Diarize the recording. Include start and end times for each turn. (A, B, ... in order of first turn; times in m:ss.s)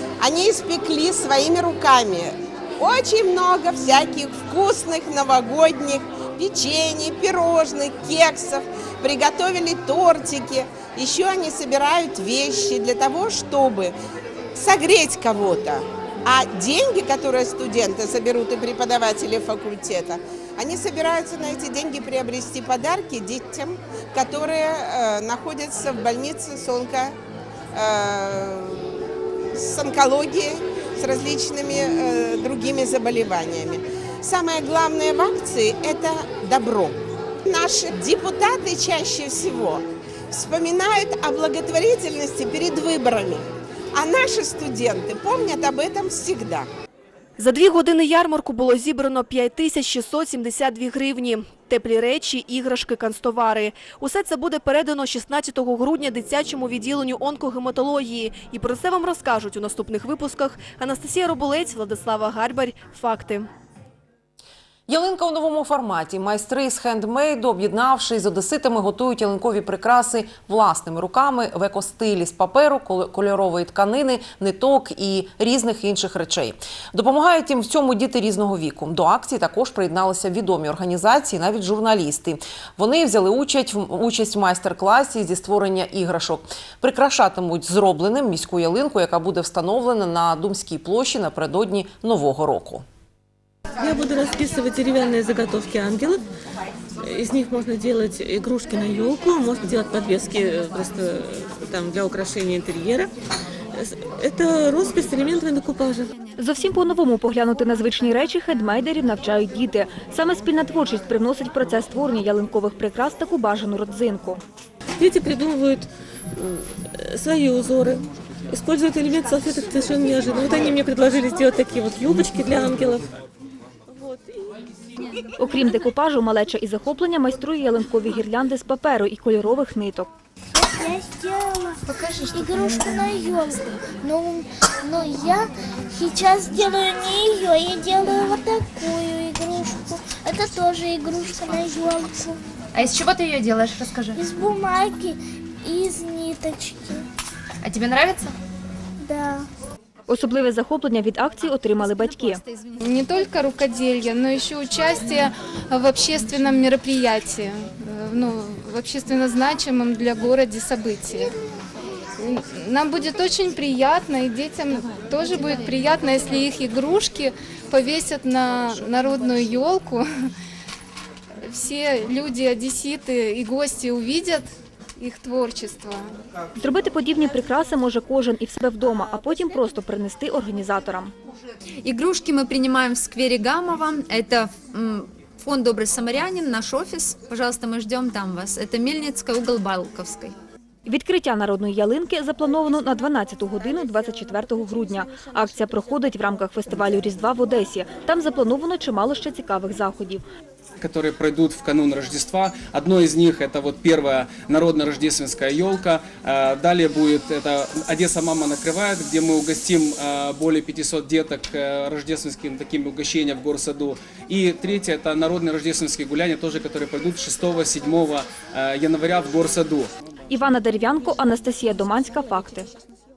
0:00.2-0:13.9 A
0:14.5-0:27.2 A
0:27.7-0:46.7 A
0:47.4-1:03.5 B
1:04.9-1:32.8 C
1:33.8-1:36.2 D
1:37.0-1:43.1 D
1:43.7-1:46.1 D
1:46.4-1:54.4 E
1:55.0-2:03.1 D
2:03.9-2:04.6 D
2:05.4-2:10.1 E
2:10.5-2:22.4 F
2:22.7-2:24.2 G
2:24.1-2:27.0 F
2:27.6-2:28.3 G
2:29.0-2:29.4 F
2:30.1-2:32.4 E
2:32.8-2:41.3 H
2:42.2-2:50.0 H
2:51.4-2:54.5 H
2:55.0-2:56.1 H
2:56.6-3:01.1 E
3:01.8-3:10.3 G
3:10.8-3:20.2 E
3:20.8-3:39.9 I
3:40.3-3:42.7 E